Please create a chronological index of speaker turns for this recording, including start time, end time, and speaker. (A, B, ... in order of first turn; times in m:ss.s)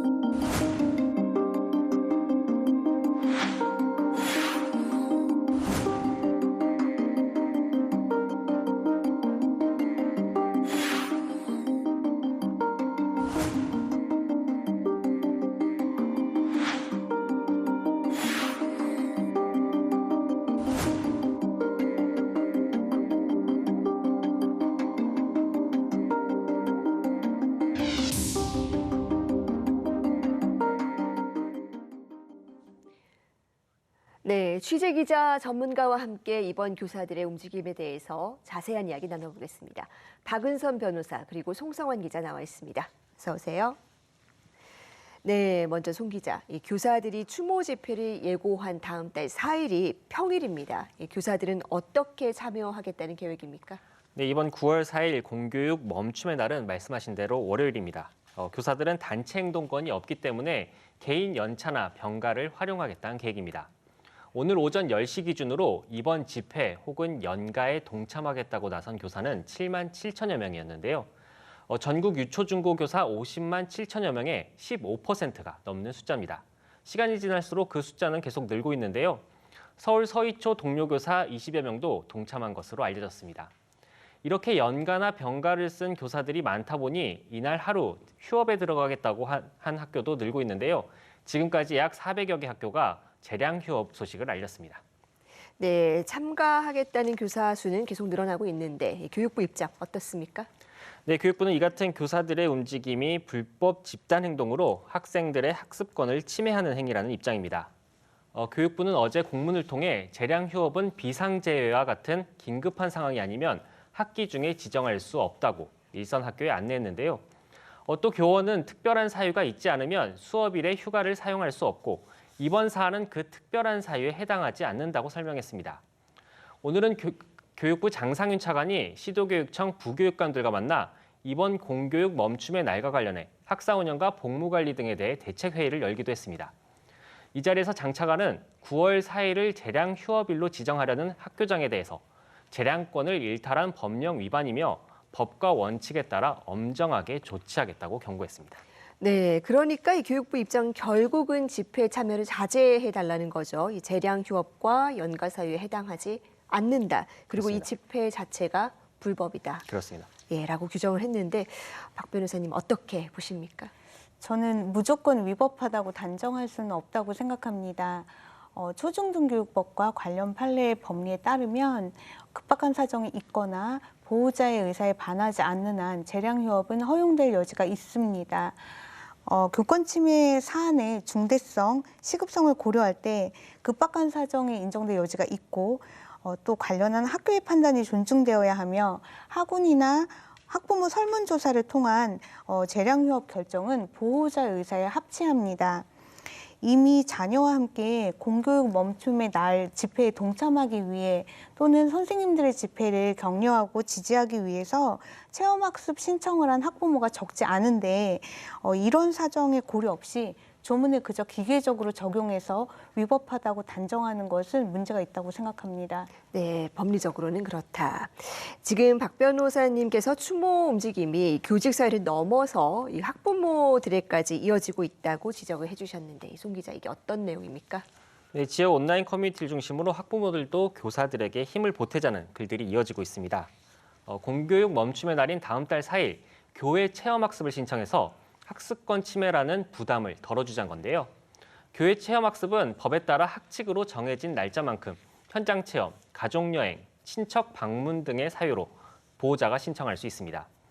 0:34.2-0:43.8 A
0:45.2-0:53.8 A
0:54.1-1:03.7 B
1:04.3-1:11.1 B
1:11.7-1:19.2 B
1:19.8-1:23.5 B
1:24.2-1:34.8 B
1:35.6-1:40.5 A
1:41.0-1:47.7 B
1:48.3-1:57.2 B
1:57.8-2:05.8 B
2:06.6-2:16.5 B
2:17.3-2:28.6 B
2:29.0-2:39.7 A
2:37.3-2:37.7 B
2:39.6-2:40.1 B
2:40.3-2:43.7 A
2:44.2-2:58.7 C
2:59.2-3:15.8 C
3:16.6-3:36.1 C
3:36.3-3:47.8 A
3:48.3-3:53.5 B
3:54.1-4:01.1 B
4:01.7-4:10.5 B